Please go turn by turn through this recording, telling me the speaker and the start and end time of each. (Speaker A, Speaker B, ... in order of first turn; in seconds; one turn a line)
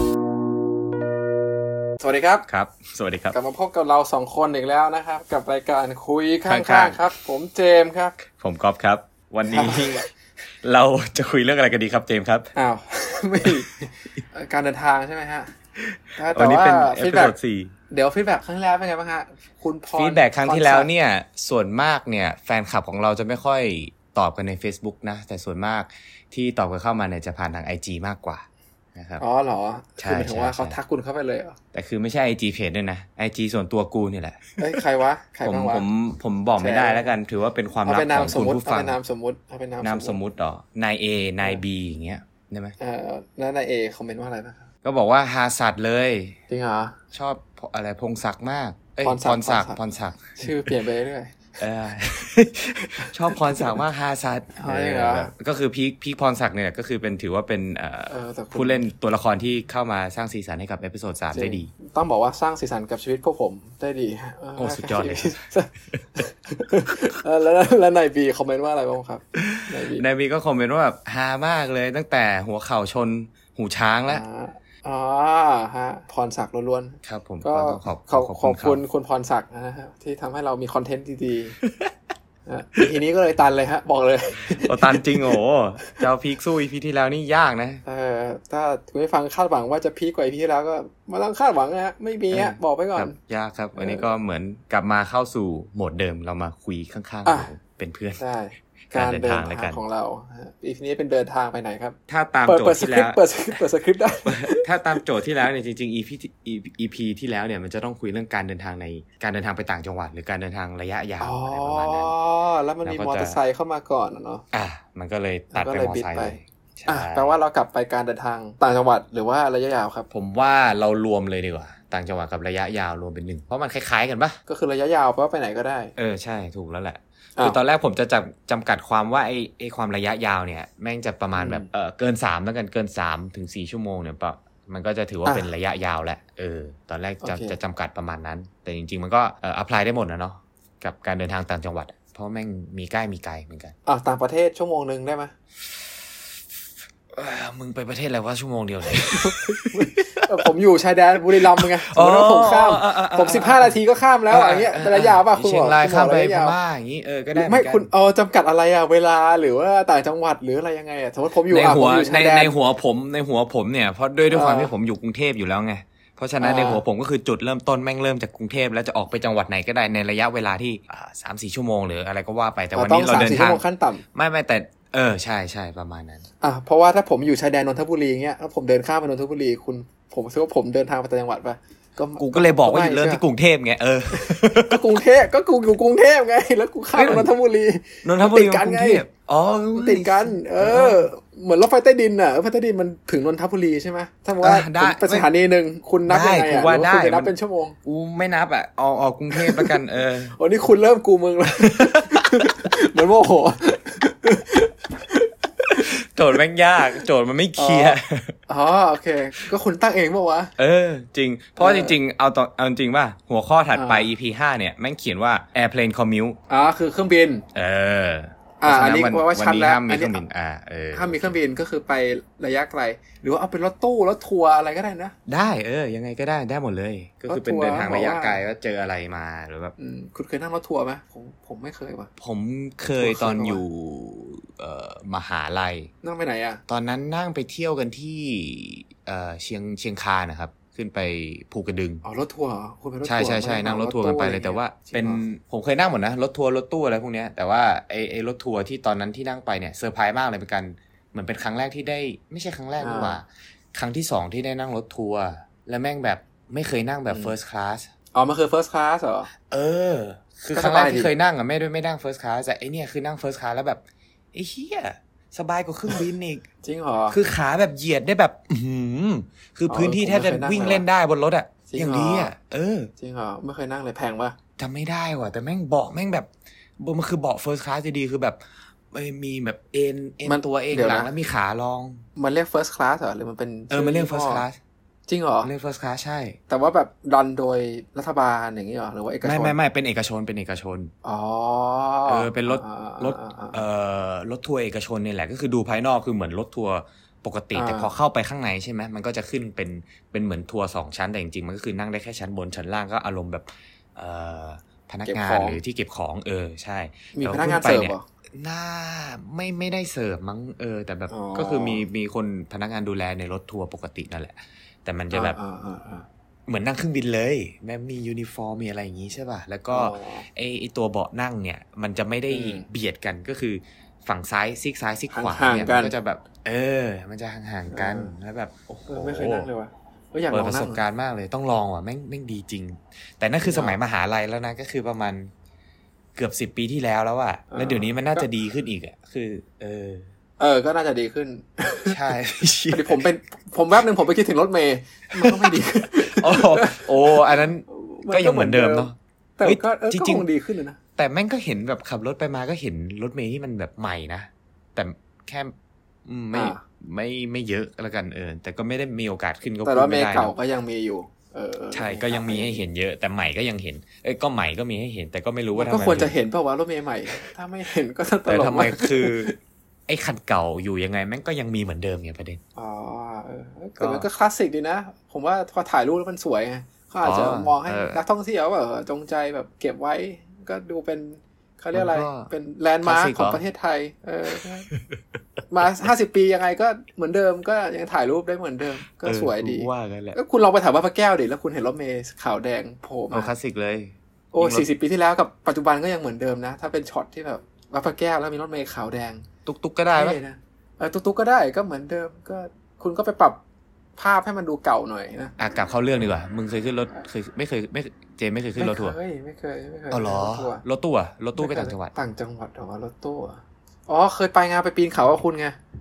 Speaker A: 2.0-2.5
Speaker B: 2.5-3.4
Speaker A: 3.3-8.2
Speaker B: 6.5-7.0
Speaker B: 8.4-10.1
Speaker A: 9.5-10.0
Speaker B: 10.6-12.5
Speaker A: 12.6-15.5
Speaker A: 16.1-17.3
Speaker B: 16.3-17.7
Speaker A: 17.9-20.9
Speaker B: 19.9-29.2
Speaker A: 29.2-31.6
Speaker B: 30.0-30.8
Speaker B: 31.7-34.8
Speaker A: 34.6-35.9
Speaker B: 35.4-39.0
Speaker A: 36.6-37.0
Speaker A: 37.8-40.2
Speaker B: 39.8-42.7
Speaker A: 42.8-44.6
Speaker B: 44.8-46.4
Speaker A: 46.5-46.9
Speaker B: 47.1-50.7
Speaker A: 49.0-49.8
Speaker A: 50.4-51.4
Speaker B: 51.6-61.7
Speaker A: 54.6-55.3
Speaker A: 58.1-58.8
Speaker A: 61.3-70.0
Speaker B: 64.5-65.4
Speaker B: 69.3-74.2
Speaker A: 74.1-81.6
Speaker B: 77.0-78.8
Speaker B: 81.6-81.9
Speaker A: 82.5-85.3
Speaker B: 84.5-87.8
Speaker A: 87.8-93.1
Speaker B: 92.3-98.2
Speaker A: 93.7-94.0
Speaker A: 97.2-97.5
Speaker A: 98.2-104.7
Speaker B: 98.9-99.8
Speaker B: 102.1-103.6
Speaker B: 104.2-112.1
Speaker A: 111.2-114.4
Speaker B: 112.8-113.4
Speaker B: 114.5-117.3
Speaker A: 115.5-120.1
Speaker B: 120.1-124.4
Speaker A: 124.5-125.9
Speaker B: 126.0-143.7
Speaker A: 131.3-131.7
Speaker A: 135.2-135.5
Speaker A: 137.2-137.6
Speaker A: 143.8-145.3
Speaker B: 147.1-150.3
Speaker A: 148.9-156.6
Speaker B: 151.5-153.8
Speaker B: 154.3-157.9
Speaker A: 157.3-162.5
Speaker B: 161.5-173.6
Speaker A: 164.3-164.7
Speaker A: 166.4-166.8
Speaker A: 172.7-174.0
Speaker B: 174.1-176.2
Speaker A: 176.4-183.2
Speaker B: 182.2-185.0
Speaker A: 184.1-189.0
Speaker B: 186.9-187.3
Speaker B: 188.0-191.1
Speaker A: 189.7-197.8
Speaker B: 194.4-195.3
Speaker B: 196.1-197.3
Speaker B: 197.8-200.3
Speaker A: 199.3-199.7
Speaker A: 200.3-205.9
Speaker B: 201.6-202.5
Speaker B: 205.7-208.3
Speaker A: 207.6-210.5
Speaker B: 210.6-216.4
Speaker A: 211.6-211.9
Speaker A: 213.7-214.1
Speaker A: 216.5-217.4
Speaker B: 217.5-221.4
Speaker A: 218.6-220.2
Speaker A: 220.9-225.1
Speaker B: 225.3-229.7
Speaker A: 227.3-228.4
Speaker A: 229.8-232.1
Speaker B: 232.2-235.9
Speaker A: 233.0-233.6
Speaker A: 236.0-236.6
Speaker B: 236.7-242.0
Speaker A: 242.0-245.2
Speaker B: 243.0-257.9
Speaker A: 252.8-253.2
Speaker A: 257.1-257.3
Speaker A: 258.1-259.3
Speaker B: 259.5-263.8
Speaker A: 260.5-261.1
Speaker B: 264.3-266.4
Speaker A: 266.6-267.2
Speaker B: 267.1-272.9
Speaker A: 269.7-270.9
Speaker A: 271.7-272.3
Speaker A: 273.0-274.4
Speaker B: 274.6-278.4
Speaker B: 278.9-282.0
Speaker A: 280.2-281.1
Speaker A: 282.2-284.4
Speaker B: 283.7-284.6
Speaker A: 285.1-285.5
Speaker B: 285.4-286.4
Speaker A: 286.5-289.6
Speaker B: 289.2-290.9
Speaker A: 291.0-293.6
Speaker B: 292.1-315.4
Speaker A: 297.5-297.9
Speaker A: 305.1-305.6
Speaker A: 307.1-308.0
Speaker A: 311.1-311.8
Speaker A: 315.1-316.1
Speaker B: 316.5-329.5
Speaker A: 319.7-320.2
Speaker A: 322.3-322.6
Speaker A: 325.1-325.9
Speaker A: 327.7-328.1
Speaker A: 328.9-330.8
Speaker B: 330.3-335.3
Speaker A: 333.4-333.8
Speaker B: 336.1-340.1
Speaker A: 337.5-338.2
Speaker A: 340.4-342.0
Speaker B: 341.9-343.0
Speaker A: 342.7-350.8
Speaker B: 345.1-350.3
Speaker B: 351.0-355.5
Speaker B: 356.1-360.3
Speaker A: 356.3-356.6
Speaker A: 359.6-362.6
Speaker B: 361.7-366.1
Speaker A: 365.5-369.3
Speaker B: 368.3-369.3
Speaker B: 369.9-372.4
Speaker A: 372.6-384.7
Speaker B: 373.8-374.1
Speaker B: 377.0-378.0
Speaker B: 381.7-382.3
Speaker B: 382.8-383.4
Speaker A: 385.5-393.3
Speaker B: 389.0-390.2
Speaker B: 393.1-394.7
Speaker A: 394.3-399.2
Speaker B: 399.4-400.2
Speaker A: 399.9-403.4
Speaker A: 404.0-405.3
Speaker B: 405.4-409.0
Speaker A: 408.6-410.6
Speaker B: 409.9-411.9
Speaker A: 411.4-415.6